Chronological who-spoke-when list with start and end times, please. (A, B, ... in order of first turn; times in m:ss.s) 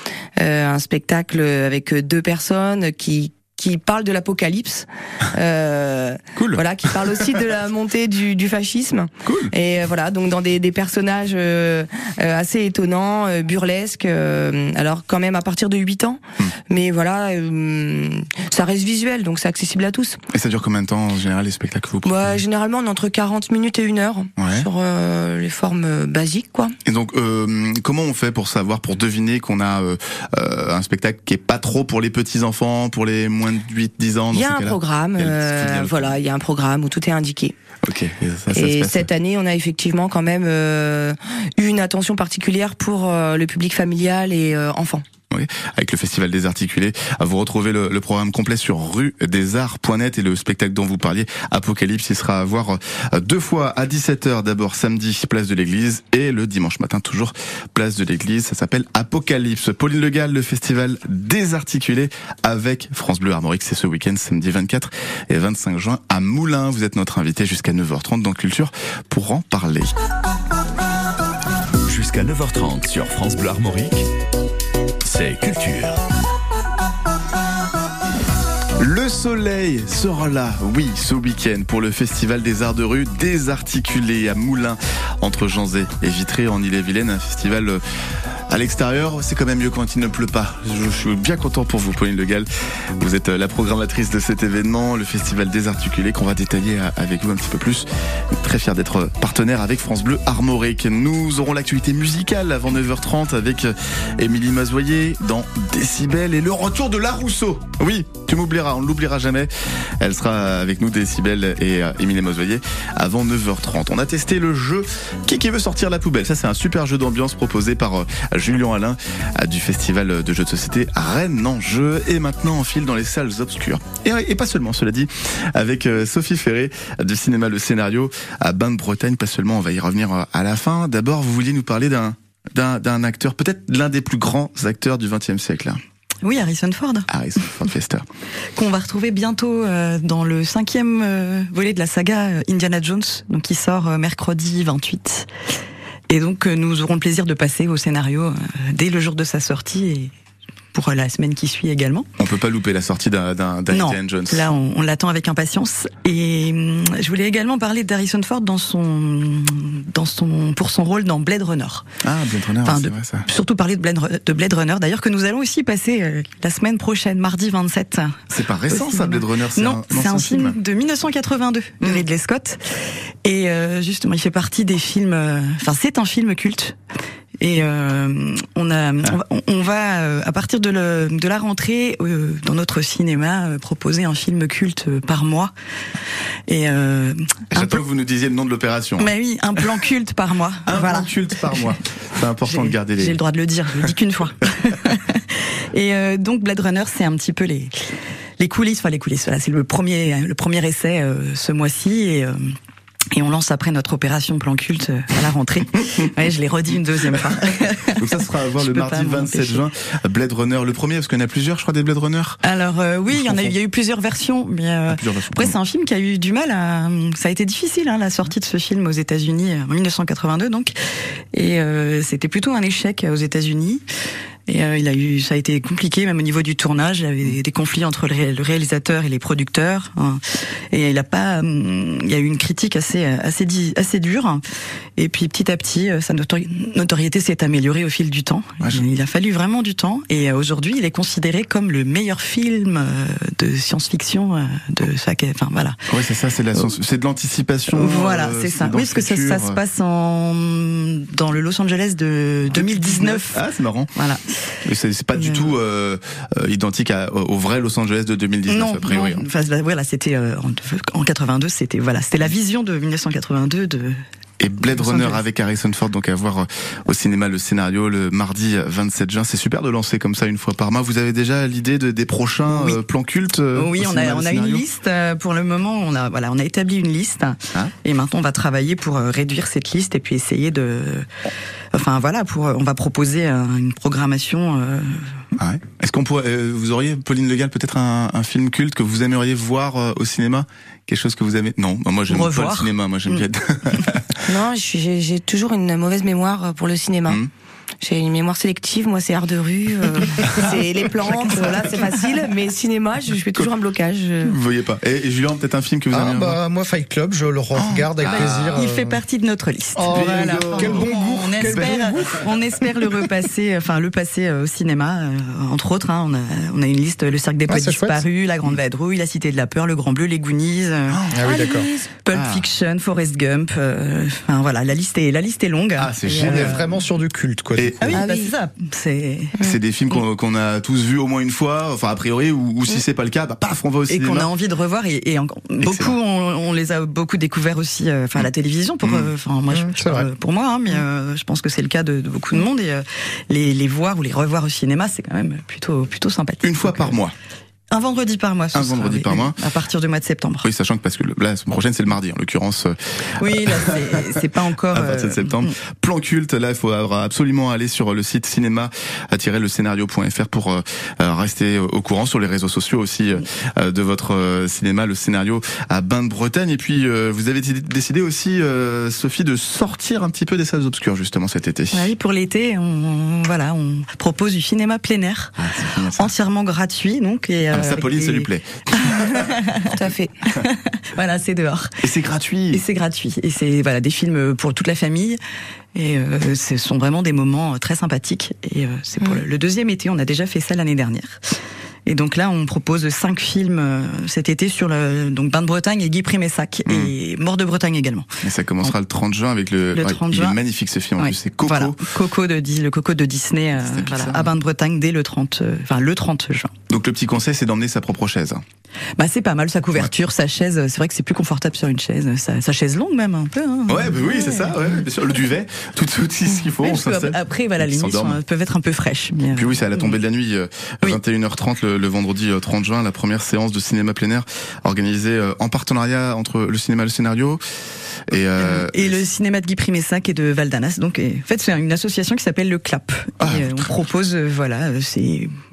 0:00.4-0:20.2 A
0:06.4-0:06.6 B
0:09.2-0:09.5 B
0:20.3-0:22.4 B
0:22.0-0:26.7 A
0:24.4-0:24.6 B
0:26.8-0:36.1 B
0:34.3-0:37.6 A
0:37.8-0:39.0 B
0:38.5-0:45.0 A
0:45.3-1:09.9 B
1:11.9-1:14.1 C
1:15.0-1:16.0 C
1:18.8-1:27.8 B
1:28.5-2:15.8 B
2:16.2-2:17.1 D
2:17.1-2:18.0 B
2:18.6-2:25.3 D
2:26.1-2:30.1 D
2:30.7-2:32.1 D
2:32.2-2:34.5 B
2:33.7-2:41.9 D
2:42.0-2:43.3 B
2:42.6-2:56.8 D
2:48.3-2:50.6 B
2:57.4-3:05.5 D
3:06.5-3:07.8 D
3:07.5-3:09.1 B
3:09.0-3:11.7 D
3:10.7-3:13.2 B
3:12.5-3:22.5 D
3:23.1-3:29.6 D
3:28.0-3:32.4 B
3:32.4-3:40.8 D
3:33.1-3:33.5 B
3:34.9-3:35.6 B
3:41.3-3:43.8 D
3:44.5-3:54.4 D
3:55.0-4:05.8 D
4:05.9-4:09.6 B
4:07.7-4:13.4 D
4:12.5-4:13.9 B
4:13.9-4:14.2 D
4:14.6-4:19.2 B
4:15.2-4:15.5 D
4:18.5-4:24.0 D
4:24.4-4:34.6 B
4:24.7-4:25.2 D
4:32.5-4:32.8 D
4:33.5-4:41.1 D
4:41.7-4:45.2 D
4:45.4-4:54.0 B
4:52.1-4:53.2 D
4:54.2-4:57.2 A
4:57.8-5:04.4 A
5:04.2-5:06.4 B
5:05.9-5:09.0 E
5:07.6-5:08.6 B
5:08.0-5:26.7 D
5:09.8-5:12.3 E
5:09.9-5:11.7 B
5:17.5-5:18.0 E
5:20.9-5:21.4 B
5:21.1-5:21.7 E
5:21.3-5:21.9 A
5:22.1-5:22.4 B
5:25.8-5:26.7 B
5:26.2-5:28.0 E
5:27.6-5:28.0 B
5:27.8-5:30.0 D
5:27.9-5:28.3 A
5:29.4-5:34.3 B
5:33.9-5:47.0 D
5:35.6-5:35.9 B
5:38.8-5:39.1 B
5:39.5-5:40.1 E
5:46.4-5:47.1 B
5:47.7-5:50.5 D
5:48.5-5:49.4 B
5:50.4-5:54.1 B
5:53.2-5:55.5 D
5:54.7-6:11.9 B
6:11.7-6:15.3 D
6:15.4-6:16.1 B
6:15.9-6:19.7 D
6:17.5-6:19.3 B
6:19.7-6:20.1 A
6:20.3-6:21.8 D
6:21.8-6:22.6 B
6:22.5-6:25.2 D
6:25.7-6:31.2 D
6:29.0-6:29.2 A
6:31.8-6:38.1 D
6:36.6-6:36.9 B
6:38.2-6:41.8 B
6:39.7-6:40.4 D
6:41.0-6:46.5 D
6:43.6-6:44.3 B
6:46.7-6:48.4 B
6:49.0-6:54.8 D
6:53.7-6:58.2 B
6:56.5-7:00.0 D
6:59.3-7:07.4 B
7:08.1-7:09.0 B
7:08.4-7:15.3 D
7:13.2-7:13.7 B